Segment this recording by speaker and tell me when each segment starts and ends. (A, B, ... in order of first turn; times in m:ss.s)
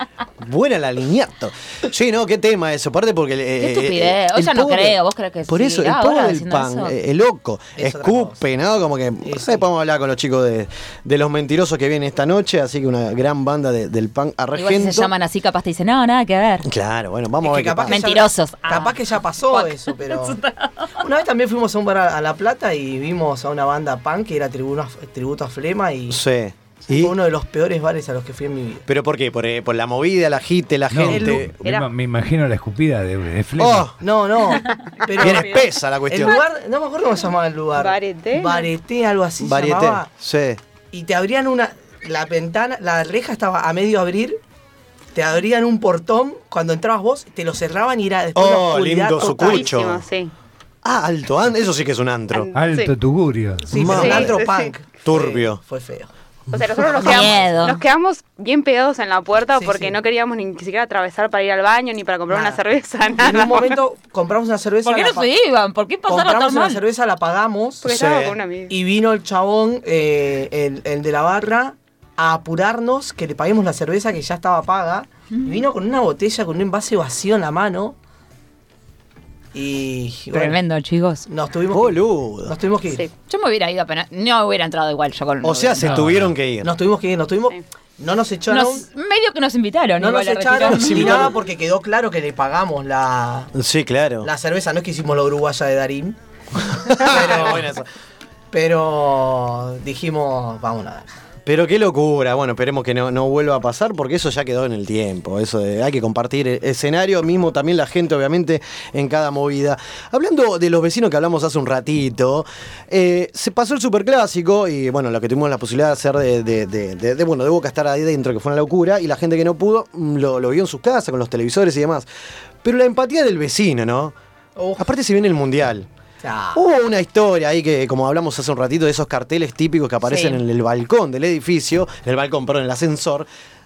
0:00.4-0:15.1 A
0:03.6-0:06.9 B
0:07.8-0:08.4 C
0:09.2-0:09.6 C
0:14.5-0:16.7 B
0:16.6-0:18.0 A
0:17.4-0:20.4 C
0:17.9-0:19.0 B
0:19.5-0:21.0 B
0:21.0-0:26.2 C
0:26.1-0:27.1 A
0:26.9-0:28.8 C
0:28.9-0:31.5 A
0:30.9-0:33.9 D
0:31.1-0:31.4 C
0:31.6-0:31.9 E
0:33.6-0:33.9 A
0:34.0-0:40.1 C
0:34.8-0:35.4 E
0:35.2-0:36.4 A
0:37.7-0:38.7 E
0:39.4-0:40.6 A
0:40.9-0:44.4 C
0:45.1-0:49.8 C
0:48.3-0:50.0 A
0:49.4-0:50.3 E
0:50.8-0:52.5 A
0:52.4-0:52.9 E
0:52.5-0:53.6 D
0:53.7-0:56.1 C
0:53.7-0:54.4 A
0:53.8-0:54.7 E
0:55.0-0:55.6 A
0:56.5-1:03.8 E
0:56.8-0:57.4 C
0:57.0-0:57.8 B
0:59.5-1:00.0 C
1:02.3-1:02.6 C
1:03.2-1:05.3 C
1:04.8-1:06.8 B
1:06.1-1:18.0 C
1:07.8-1:08.7 E
1:19.5-1:20.6 C
1:20.3-1:21.3 B
1:21.3-1:23.0 C
1:21.7-1:22.6 A
1:23.3-1:26.0 B
1:25.4-1:26.7 A
1:25.8-1:26.3 D
1:26.6-1:28.8 C
1:28.5-1:31.3 B
1:30.0-1:33.5 C
1:30.6-1:31.3 A
1:33.5-1:34.3 A
1:34.2-1:36.2 C
1:36.7-1:37.7 C
1:36.8-1:37.8 A
1:38.5-1:41.1 C
1:41.4-2:02.1 A
2:02.6-2:04.1 A
2:04.6-2:04.8 C
2:04.8-2:05.9 A
2:06.2-2:06.6 C
2:06.5-2:13.3 A
2:10.0-2:10.4 B